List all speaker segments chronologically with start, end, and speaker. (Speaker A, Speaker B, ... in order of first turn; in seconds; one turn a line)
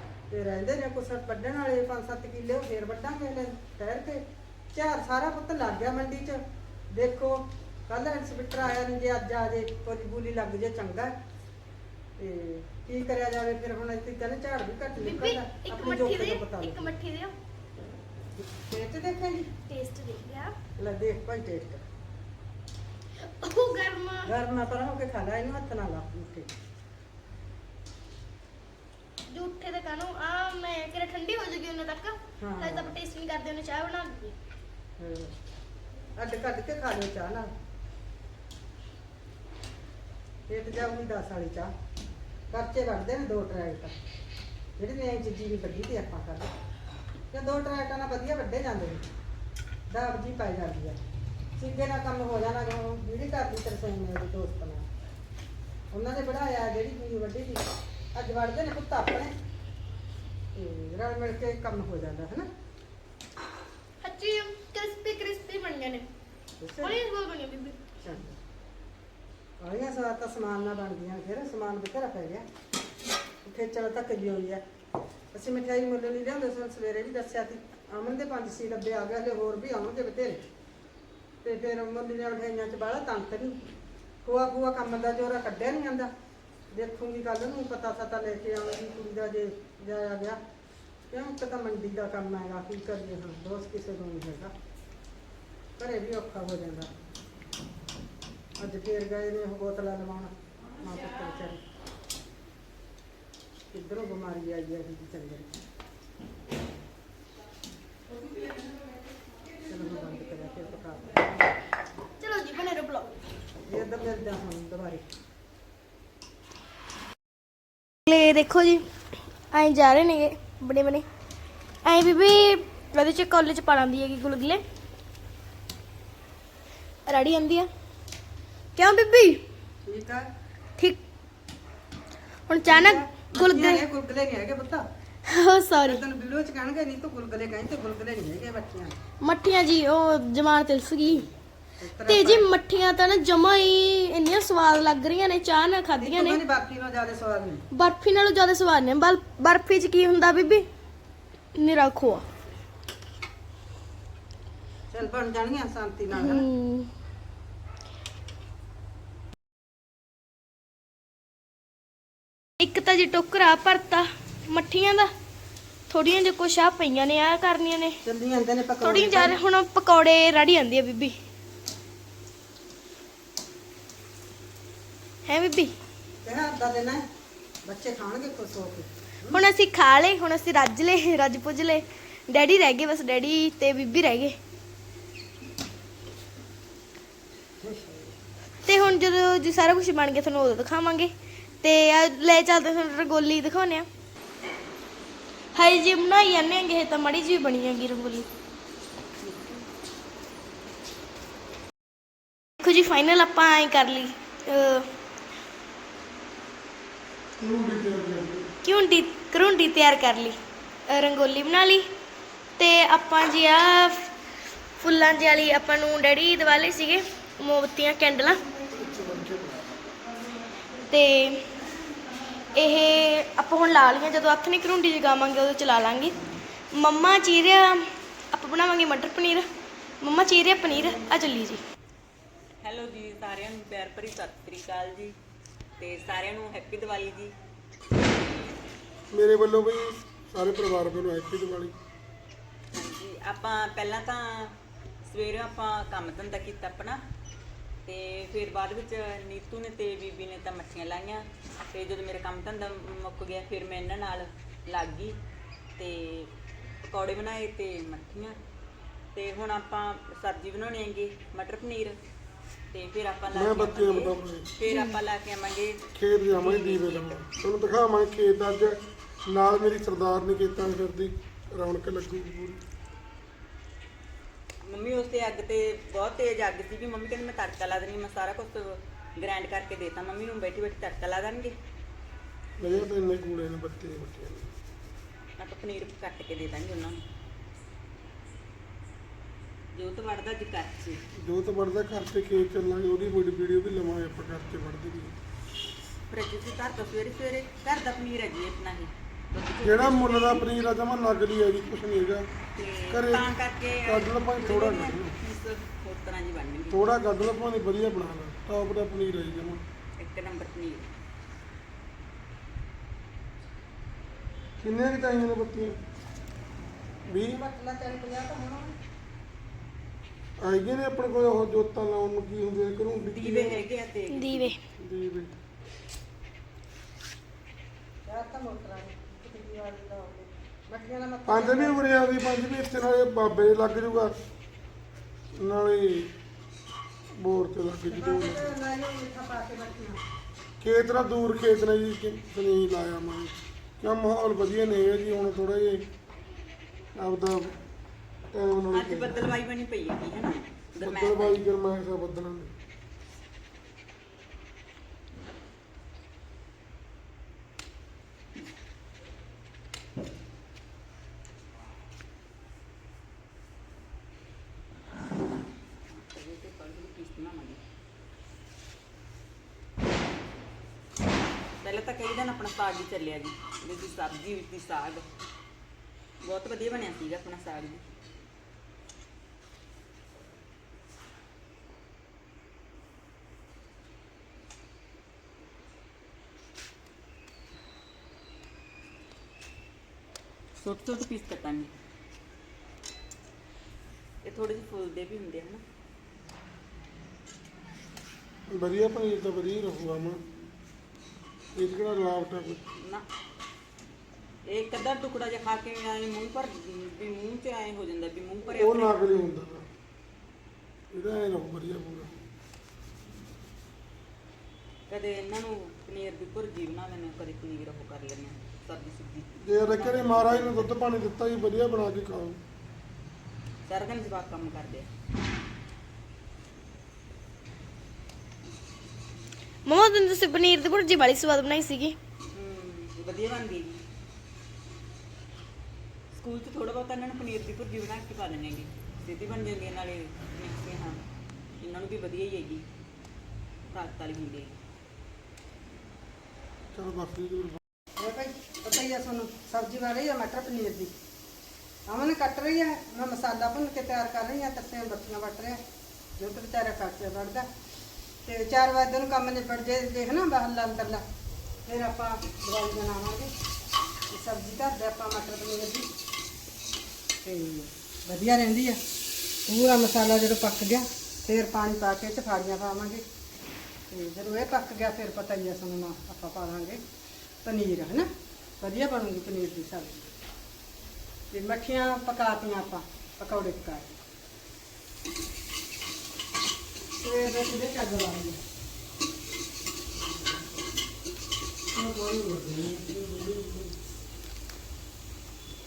Speaker A: 0.3-11.1
Speaker A: 12.2-16.9
Speaker B: 15.0-17.3
Speaker A: 18.4-19.5
Speaker B: 19.6-20.5
Speaker A: 20.8-21.8
Speaker B: 23.2-24.3
Speaker A: 24.2-26.5
Speaker B: 29.3-34.4
Speaker A: 32.4-33.0
Speaker A: 35.0-35.3
Speaker A: 36.2-37.5
Speaker A: 40.5-41.7
Speaker A: 42.5-43.9
Speaker A: 44.8-46.5
Speaker A: 47.3-49.0
Speaker A: 49.9-51.0
Speaker A: 51.6-54.8
Speaker A: 55.9-59.3
Speaker A: 60.5-62.5
Speaker B: 64.0-66.1
Speaker A: 66.6-67.0
Speaker B: 66.8-67.8
Speaker A: 68.0-68.4
Speaker A: 69.6-72.5
Speaker A: 73.4-74.6
Speaker A: 75.3-80.4
Speaker A: 81.4-83.6
Speaker A: 84.2-86.1
Speaker A: 86.7-90.4
Speaker A: 91.1-94.5
Speaker A: 95.8-96.9
Speaker A: 98.6-101.6
Speaker A: 103.7-105.5
Speaker A: 109.7-111.4
Speaker B: 112.2-113.1
Speaker A: 113.7-115.0
Speaker B: 118.1-118.8
Speaker B: 119.5-121.0
Speaker B: 121.8-124.6
Speaker B: 127.1-127.7
Speaker B: 128.8-129.4
Speaker A: 129.8-130.3
Speaker B: 132.5-133.8
Speaker A: 132.6-134.8
Speaker B: 135.2-136.0
Speaker A: 135.8-139.0
Speaker B: 139.2-141.3
Speaker A: 141.0-142.5
Speaker B: 142.1-146.4
Speaker A: 146.0-147.7
Speaker B: 147.7-150.7
Speaker B: 151.5-152.3
Speaker A: 154.9-156.5
Speaker B: 156.1-156.9
Speaker B: 162.6-165.1
Speaker B: 165.9-168.0
Speaker A: 168.0-169.4
Speaker B: 168.8-171.2
Speaker B: 175.2-175.7
Speaker A: 176.2-177.1
Speaker A: 177.7-179.4
Speaker B: 179.3-184.4
Speaker A: 187.6-188.1
Speaker B: 188.6-193.9
Speaker B: 195.5-198.3
Speaker B: 202.6-204.9
Speaker C: 207.4-208.5
Speaker B: 208.6-210.4
Speaker B: 210.9-211.9
Speaker B: 212.6-214.1
Speaker B: 214.8-218.4
Speaker C: 218.7-219.8
Speaker B: 220.9-221.5
Speaker B: 222.5-226.2
Speaker B: 226.7-229.5
Speaker B: 230.0-231.6
Speaker D: 232.6-235.1
Speaker D: 235.8-237.3
Speaker C: 239.1-241.7
Speaker D: 242.7-244.5
Speaker D: 245.0-247.0
Speaker D: 247.8-255.2
Speaker D: 255.8-256.3
Speaker D: 256.9-258.4
Speaker D: 259.1-262.0
Speaker D: 262.7-267.2
Speaker C: 263.3-264.5
Speaker B: 264.6-265.0
Speaker C: 265.9-272.6
Speaker D: 274.6-281.6
Speaker C: 282.6-284.5
Speaker D: 285.4-287.0
Speaker D: 289.7-291.0
Speaker C: 291.2-295.1
Speaker D: 296.1-300.4
Speaker C: 299.6-302.3
Speaker D: 302.6-306.9
Speaker C: 302.9-303.3
Speaker C: 303.9-305.1
Speaker C: 306.7-309.6
Speaker D: 310.0-310.9
Speaker C: 314.6-315.8
Speaker C: 317.1-317.4
Speaker A: 317.2-318.7
Speaker C: 320.4-323.6
Speaker D: 323.1-324.5
Speaker B: 324.1-324.6
Speaker C: 324.8-325.3
Speaker A: 328.1-331.8
Speaker C: 331.3-334.1
Speaker C: 335.3-336.1
Speaker C: 337.1-338.5
Speaker A: 337.9-340.0
Speaker C: 340.6-345.9
Speaker C: 346.9-347.5
Speaker C: 348.3-349.3
Speaker D: 348.7-351.4
Speaker C: 350.8-352.5
Speaker D: 365.9-367.6
Speaker D: 371.6-375.1
Speaker D: 376.2-377.8
Speaker D: 390.6-391.7
Speaker D: 394.2-395.6
Speaker C: 398.5-400.2
Speaker C: 401.6-402.6
Speaker D: 404.5-409.3
Speaker C: 408.6-409.6
Speaker C: 410.9-412.1
Speaker D: 414.9-420.7
Speaker C: 419.4-422.4
Speaker D: 423.7-424.9
Speaker B: 429.6-432.0
Speaker D: 432.3-433.8
Speaker D: 436.1-441.0
Speaker D: 441.6-442.6
Speaker D: 443.7-444.5
Speaker C: 446.7-447.6
Speaker A: 448.0-450.9
Speaker A: 451.9-455.6
Speaker A: 456.2-457.5
Speaker A: 458.2-461.0
Speaker A: 461.6-463.3
Speaker A: 464.1-465.9
Speaker A: 467.2-468.8
Speaker A: 469.5-473.1
Speaker A: 473.9-476.8
Speaker A: 477.4-478.1
Speaker A: 478.6-480.1
Speaker A: 481.3-483.9
Speaker A: 487.0-488.4
Speaker C: 491.7-493.7